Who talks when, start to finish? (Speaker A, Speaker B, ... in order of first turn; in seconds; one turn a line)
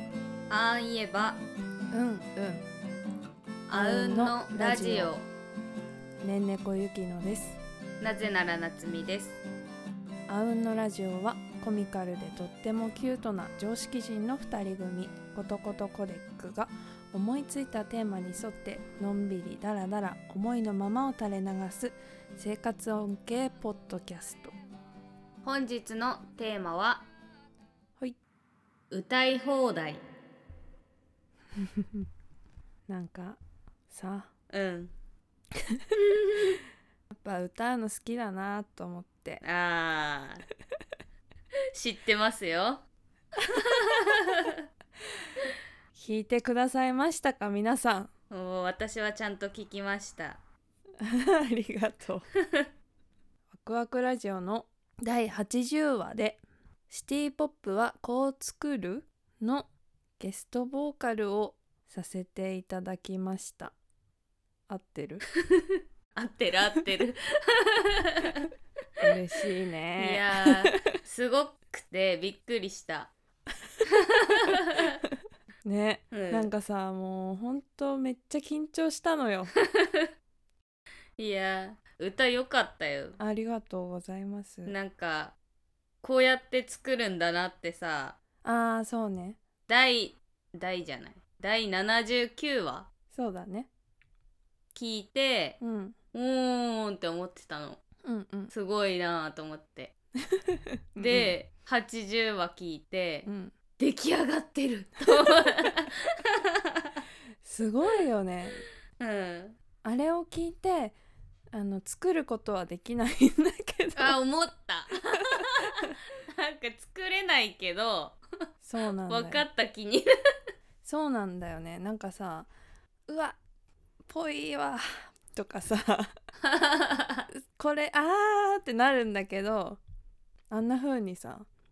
Speaker A: 0.5-1.4
Speaker B: 1.9-2.6
Speaker A: 3.7-5.3
Speaker B: 3.7-5.1
Speaker B: 6.2-7.6
Speaker A: 8.0-9.4
Speaker B: 10.3-24.5
Speaker A: 25.4-27.1
Speaker A: 28.9-30.0
Speaker B: 31.6-32.0
Speaker B: 32.9-33.4
Speaker B: 33.9-34.3
Speaker A: 34.5-34.9
Speaker B: 35.7-35.9
Speaker A: 35.9-36.6
Speaker B: 37.1-39.4
Speaker A: 39.4-40.5
Speaker A: 41.7-42.8
Speaker A: 43.5-44.6
Speaker B: 45.9-48.1
Speaker A: 48.3-50.4
Speaker B: 51.0-52.2
Speaker B: 53.5-59.7
Speaker B: 60.2-63.7
Speaker B: 64.7-65.2
Speaker A: 65.3-68.5
Speaker B: 69.0-70.8
Speaker A: 70.0-73.1
Speaker A: 73.8-75.0
Speaker B: 75.6-79.5
Speaker A: 76.1-76.5
Speaker A: 79.5-80.1
Speaker A: 81.2-83.2
Speaker B: 83.2-84.7
Speaker A: 84.7-85.3
Speaker A: 86.0-88.2
Speaker B: 88.4-89.4
Speaker A: 89.7-92.9
Speaker B: 93.1-93.7
Speaker A: 94.7-95.6
Speaker B: 95.6-95.9
Speaker A: 96.1-97.8
Speaker B: 98.0-98.5
Speaker A: 98.5-99.9
Speaker B: 100.3-101.3
Speaker A: 101.0-107.0
Speaker B: 103.2-103.5
Speaker B: 107.4-108.6
Speaker A: 109.0-109.6
Speaker B: 109.8-111.0
Speaker B: 111.5-114.2
Speaker A: 114.0-118.2
Speaker B: 115.3-115.6
Speaker B: 118.6-119.5
Speaker A: 119.1-120.1
Speaker B: 120.8-122.5
Speaker B: 123.1-123.4
Speaker B: 124.0-126.1
Speaker A: 126.4-127.3
Speaker B: 127.3-129.8
Speaker B: 130.5-131.5